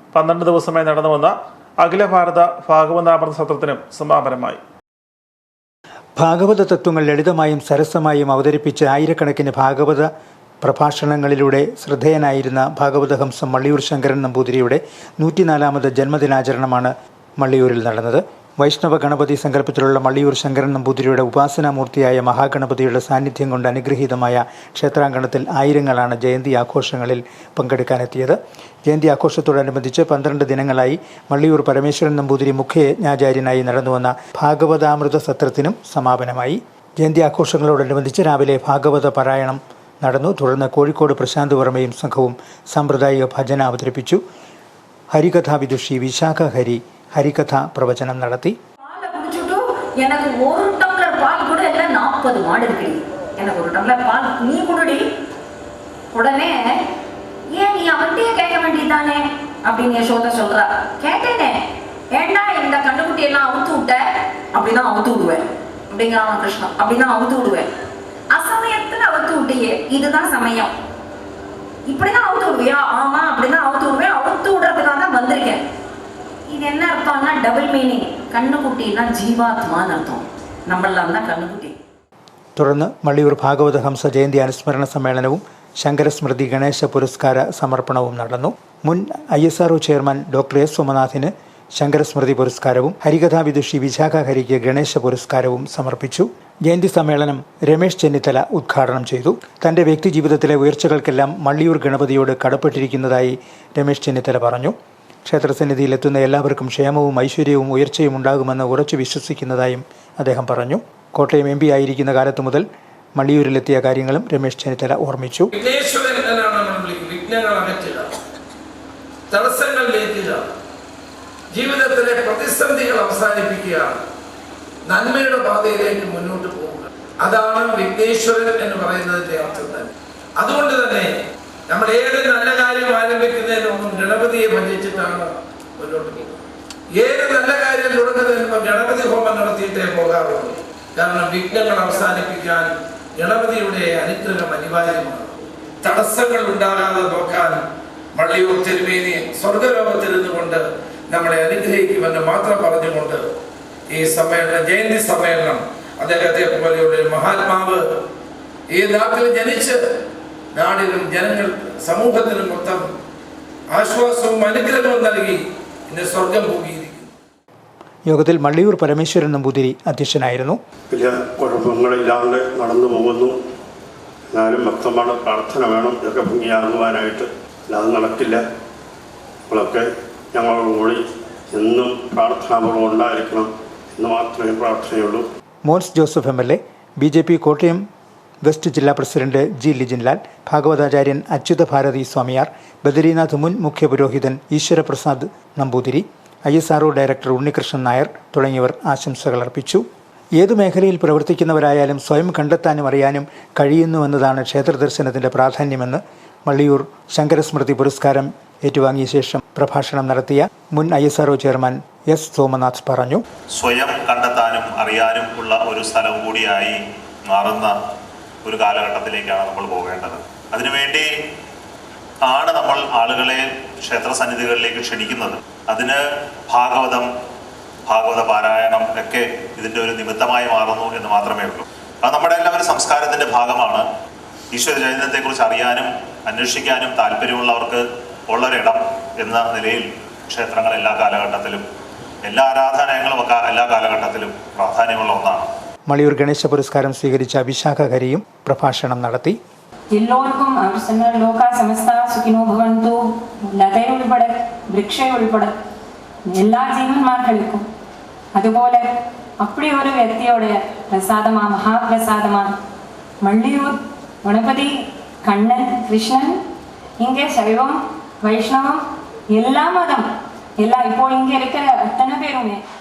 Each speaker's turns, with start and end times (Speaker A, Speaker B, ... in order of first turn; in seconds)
Speaker A: 0.1-4.6
Speaker B: 6.2-10.1, 10.6-44.2, 45.1-48.5, 82.6-112.7, 113.2-115.5, 168.1-170.6, 185.7-187.8, 188.4-199.8, 200.4-213.2, 245.9-249.4
Speaker C: 48.8-55.1, 56.1-56.9, 57.5-67.7, 68.3-70.7, 71.9-75.7, 76.5-81.8
Speaker D: 115.6-118.1, 119.3-120.5, 121.5-124.0, 124.9-131.1, 131.7-136.4, 136.9-147.6, 148.2-153.3, 153.9-157.9, 158.7-159.8, 160.6-162.9, 163.7-167.1
Speaker E: 170.9-173.3, 174.3-178.4, 179.5-185.2
Speaker F: 213.5-216.8, 217.3-217.7, 218.4-221.1, 222.2-227.1, 227.9-233.8, 234.5-241.6, 242.2-245.5
Speaker G: 249.9-255.6, 256.3-257.7, 258.4-262.6, 263.2-266.4, 267.0-268.8, 269.3-270.1, 270.6-272.6